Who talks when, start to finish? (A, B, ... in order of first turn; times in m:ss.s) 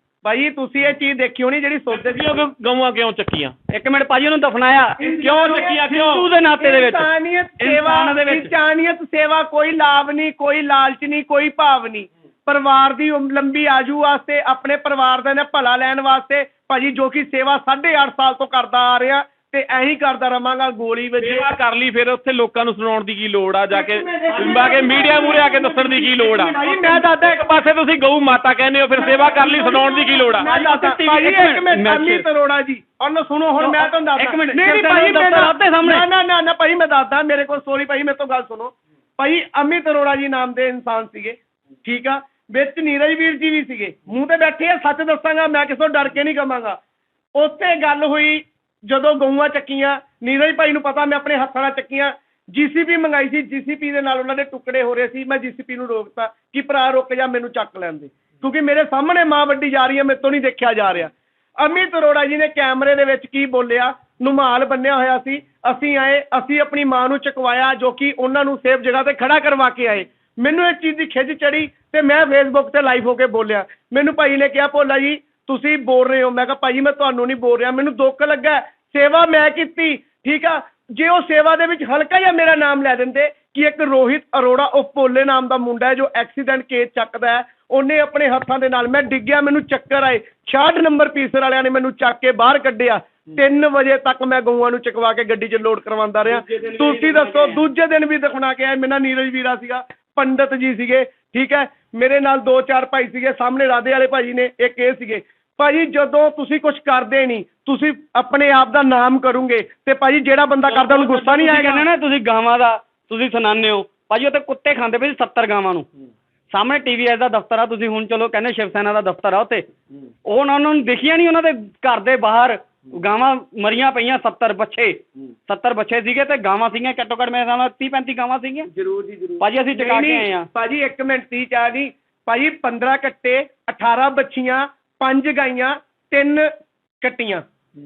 0:00.2-0:02.4 A
0:01.9-0:03.6 B
0:03.7-0:05.3 C
0:05.0-0:05.9 A
0:05.2-0:06.3 B
0:05.8-0:08.5 C
0:06.6-0:21.5 A
0:21.2-0:30.5 B
0:23.7-0:27.4 A
0:24.3-0:25.1 C
0:28.9-0:46.8 A
0:30.4-0:32.2 C
0:33.6-0:36.1 C
0:47.4-1:51.9 A
1:36.2-1:37.6 C
1:50.7-1:55.9 C
1:56.5-1:59.7 C
2:00.3-2:08.7 C
2:08.7-2:16.5 A
2:09.4-2:10.5 C
2:17.0-2:17.4 A